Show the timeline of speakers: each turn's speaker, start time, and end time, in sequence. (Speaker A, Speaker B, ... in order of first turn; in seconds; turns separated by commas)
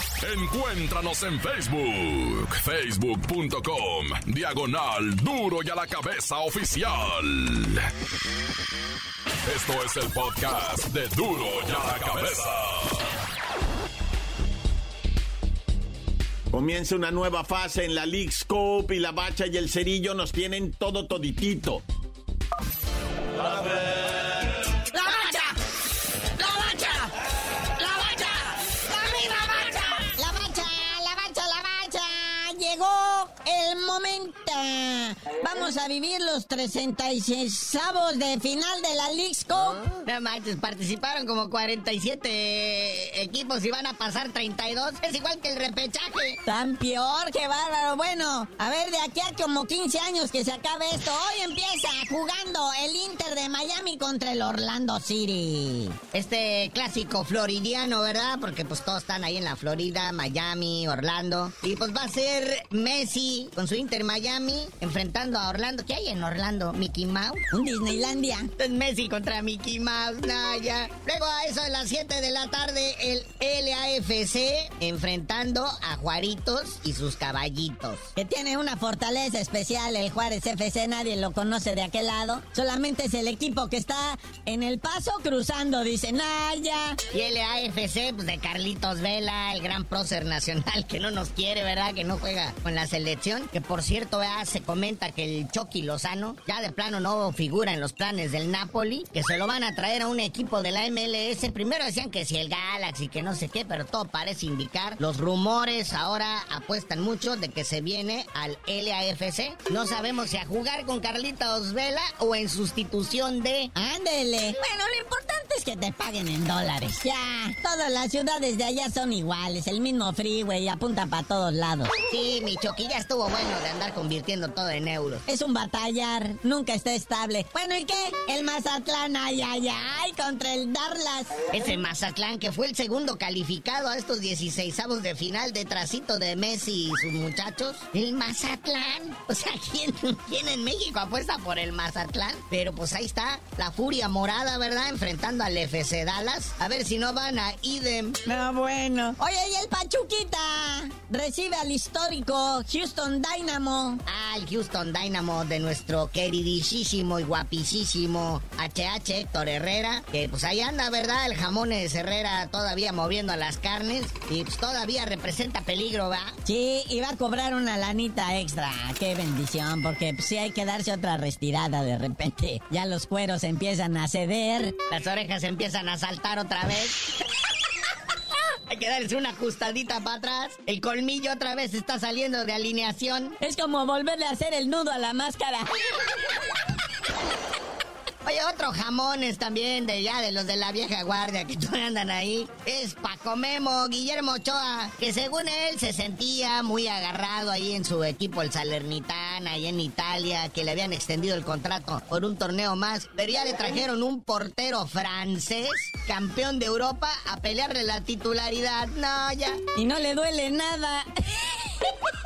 Speaker A: 0.2-7.9, Speaker A: 9.5-13.1, Speaker B: 16.5-21.9, Speaker C: 24.9-25.6, Speaker C: 26.4-27.1, Speaker C: 27.8-39.9, Speaker D: 40.1-46.4, Speaker C: 46.5-56.0, Speaker D: 56.1-67.4, Speaker C: 67.5-68.5, Speaker D: 68.6-78.1, Speaker C: 78.2-87.0, Speaker D: 87.1-113.7, Speaker C: 113.8-121.9, Speaker D: 122.1-125.2, Speaker C: 125.3-131.4, Speaker D: 131.5-148.2, Speaker C: 148.3-154.0, Speaker D: 154.1-166.4, Speaker C: 166.5-174.8, Speaker D: 174.9-177.0, Speaker D: 178.7-183.4, Speaker C: 183.4-185.7, Speaker D: 188.2-209.6, Speaker C: 209.8-211.9